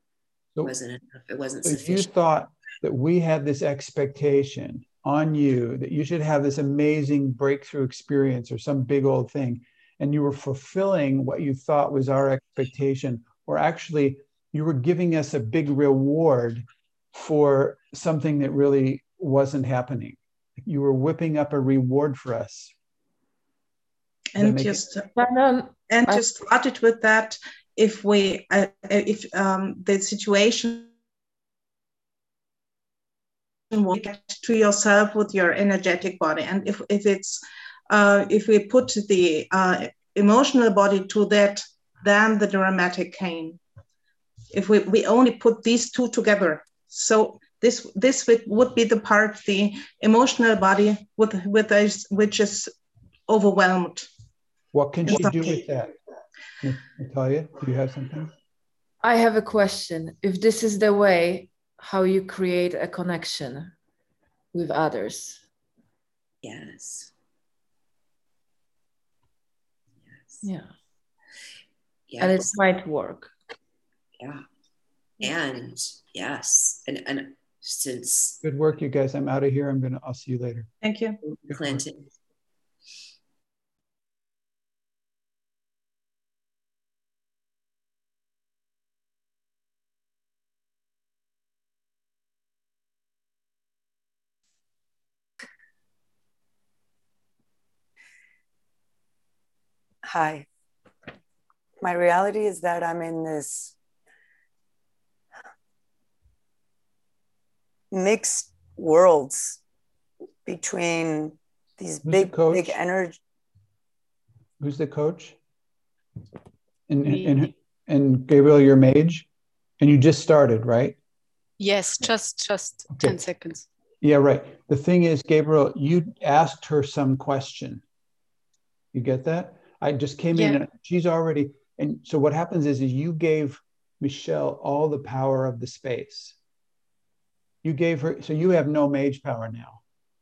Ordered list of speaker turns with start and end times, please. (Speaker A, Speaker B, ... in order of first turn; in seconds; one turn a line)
Speaker A: 0.6-2.1
Speaker B: 1.6-22.7
Speaker C: 24.4-25.1
Speaker B: 24.4-24.8
Speaker D: 25.2-25.7
Speaker C: 25.9-30.9
Speaker C: 33.7-43.6
Speaker C: 44.5-52.7
Speaker C: 53.3-54.1
Speaker B: 54.7-55.9
Speaker C: 55.0-55.6
Speaker B: 56.6-58.3
Speaker D: 59.0-63.8
Speaker D: 64.5-65.5
Speaker A: 66.4-67.1
Speaker A: 70.1-70.5
Speaker D: 70.4-70.7
Speaker A: 72.1-72.6
Speaker D: 72.2-73.3
Speaker A: 74.2-74.5
Speaker A: 75.2-78.4
Speaker B: 78.4-80.7
Speaker C: 80.8-81.2
Speaker A: 81.2-82.1
Speaker B: 81.5-81.8
Speaker E: 100.0-100.5
Speaker E: 101.8-103.8
Speaker E: 107.9-109.6
Speaker E: 110.5-113.2
Speaker B: 112.0-112.8
Speaker B: 114.6-115.4
Speaker B: 116.9-119.3
Speaker F: 117.1-117.4
Speaker B: 119.8-121.0
Speaker F: 121.6-123.7
Speaker B: 122.9-123.2
Speaker B: 124.0-127.8
Speaker B: 128.9-136.4
Speaker B: 137.6-139.8